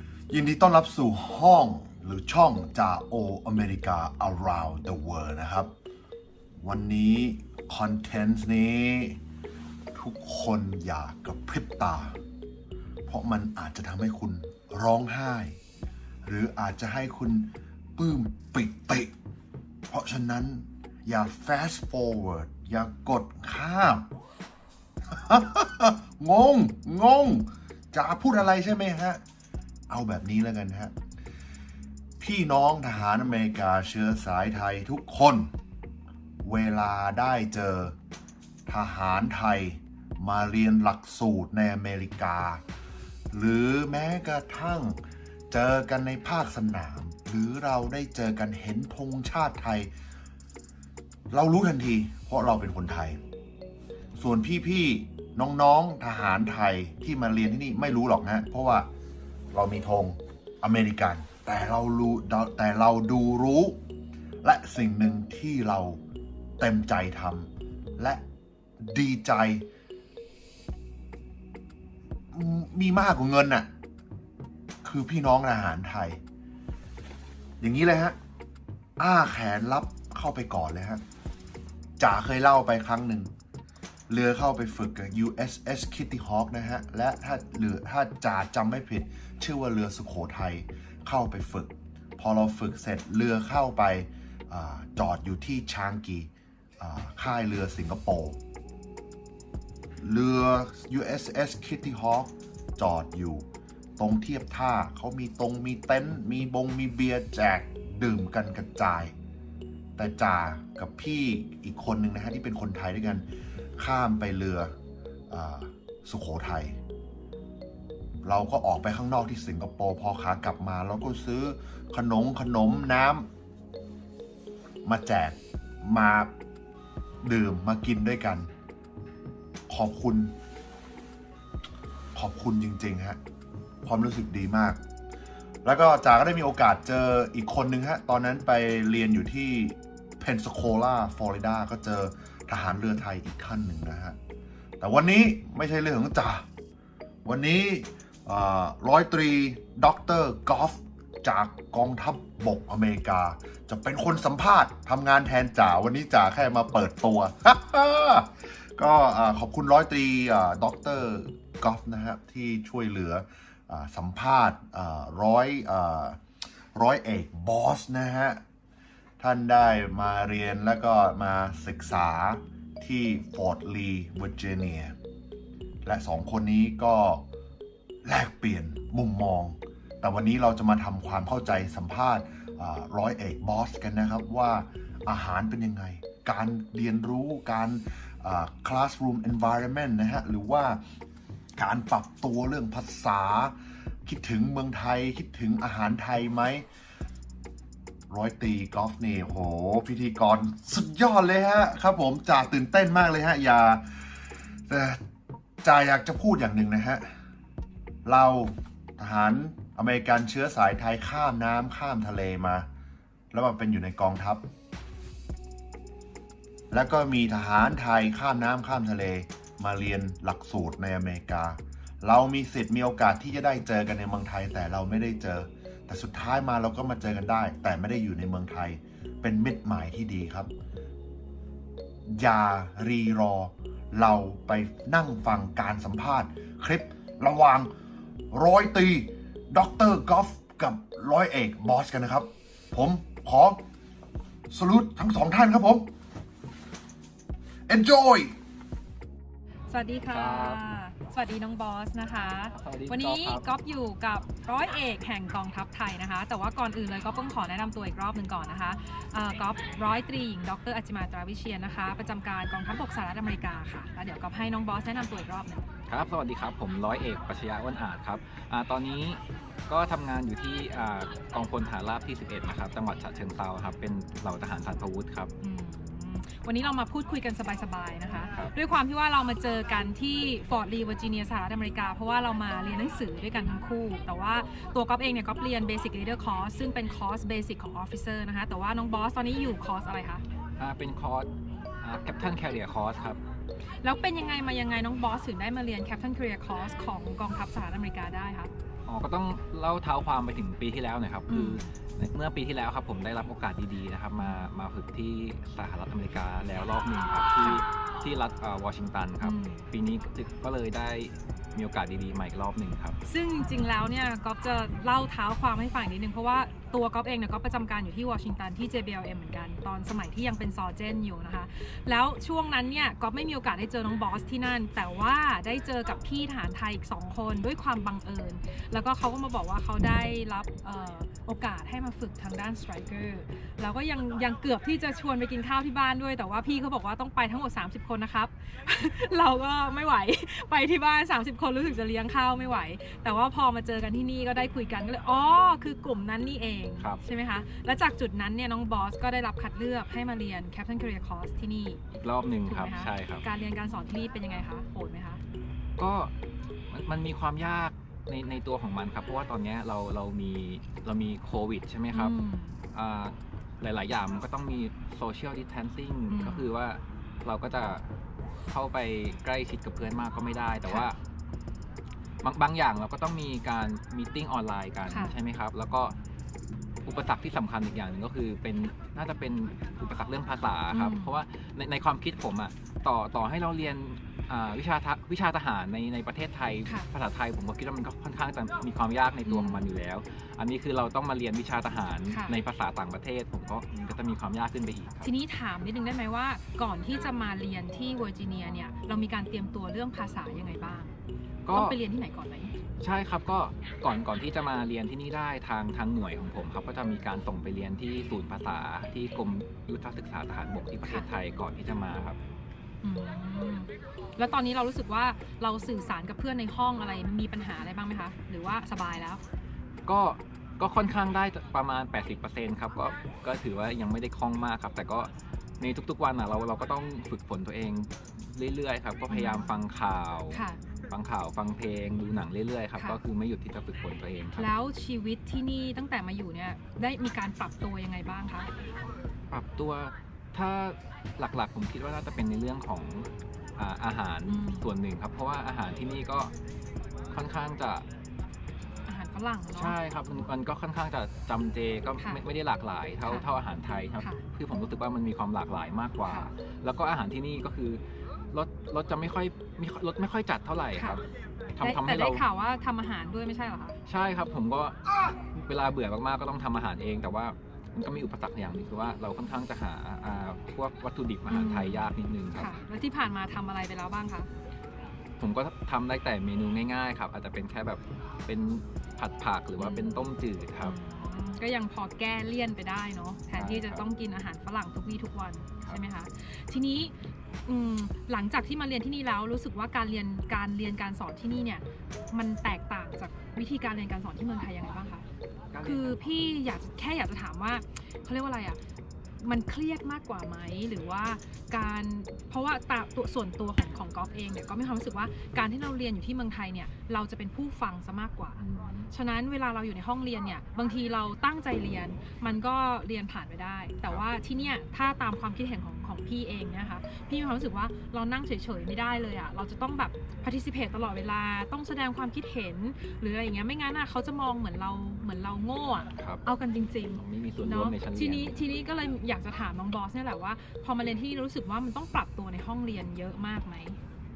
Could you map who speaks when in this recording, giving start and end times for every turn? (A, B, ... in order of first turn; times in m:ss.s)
0:00.3-0:05.7 A
0:06.6-0:09.2 A
0:10.0-0:12.2 A
0:13.1-0:15.6 A
0:16.2-0:19.1 A
0:19.9-0:24.1 A
0:25.1-0:29.2 A
0:29.9-0:30.9 A
0:32.2-0:35.5 A
0:36.4-0:38.0 A
0:38.7-0:42.6 A
0:43.3-0:49.9 A
0:51.3-0:53.2 A
0:54.2-0:58.9 A
0:59.5-1:03.8 A
1:04.4-1:06.0 A
1:06.6-1:08.2 A
1:08.8-1:09.7 A
1:12.3-1:13.7 A
1:14.8-1:16.2 A
1:17.6-1:18.2 A
1:19.0-1:21.0 A
1:22.0-1:23.3 A
1:24.1-1:38.4 A
1:40.0-1:43.5 A
1:44.0-1:49.1 A
1:50.0-1:53.3 A
1:53.8-1:54.7 A
1:55.3-1:56.8 A
1:58.2-2:03.3 A
2:04.8-2:06.3 A
2:07.2-2:08.5 A
2:09.7-2:10.3 A
2:12.2-2:13.2 A
2:13.8-2:14.8 A
2:15.6-2:24.2 A
2:24.8-2:26.4 A
2:27.2-2:46.2 A
2:46.8-2:48.4 A
2:49.2-2:55.0 A
2:55.8-2:57.2 A
2:58.0-3:10.8 A
3:11.6-3:13.5 A
3:14.0-3:16.7 A
3:18.1-3:23.9 A
3:24.7-3:25.0 A
3:25.6-3:27.1 A
3:28.1-3:32.7 A
3:33.3-3:34.4 A
3:36.7-3:50.5 A
3:52.1-3:57.7 A
3:58.3-4:03.6 A
4:04.5-4:05.9 A
4:07.7-4:08.4 A
4:09.7-4:25.7 B
4:10.1-4:10.6 C
4:12.6-4:13.4 C
4:25.9-4:35.3 C
4:35.4-4:50.2 B
4:50.6-4:51.3 C
4:51.8-4:53.2 C
4:53.8-4:58.5 B
4:58.9-5:13.0 C
5:01.3-5:01.7 B
5:04.2-5:04.5 B
5:09.2-5:09.7 B
5:13.1-5:51.8 B
5:51.9-5:53.2 C
5:52.4-5:55.2 B
5:55.8-5:56.1 C
5:56.7-6:02.2 C
6:01.9-6:02.6 B
6:02.7-6:07.9 C
6:06.1-6:06.5 B
6:08.5-6:11.0 C
6:12.2-6:16.0 C
6:14.9-6:15.2 B
6:16.8-6:35.1 C
6:20.7-6:21.1 B
6:29.2-6:29.7 B
6:32.1-6:32.4 B
6:35.0-6:41.0 B
6:41.4-6:41.8 C
6:41.5-6:42.6 B
6:42.8-6:52.2 C
6:52.8-6:59.2 B
6:59.9-7:14.5 C
7:09.1-7:09.6 B
7:10.3-7:10.6 B
7:14.4-7:18.5 B
7:19.3-7:26.4 C
7:24.3-7:24.7 B
7:27.1-7:27.9 C
7:28.9-7:29.8 B
7:29.5-7:42.2 C
7:32.0-7:32.2 B
7:33.0-7:33.3 B
7:40.8-7:41.0 B
7:41.6-7:43.8 B
7:43.9-7:52.5 C
7:51.3-7:54.3 B
7:55.2-8:00.8 C
7:59.6-8:15.0 B
8:03.4-8:03.8 C
8:15.5-8:16.3 C
8:15.6-8:18.6 B
8:19.2-8:53.8 B
8:28.4-8:28.9 C
8:46.0-8:46.2 C
8:46.9-8:48.4 C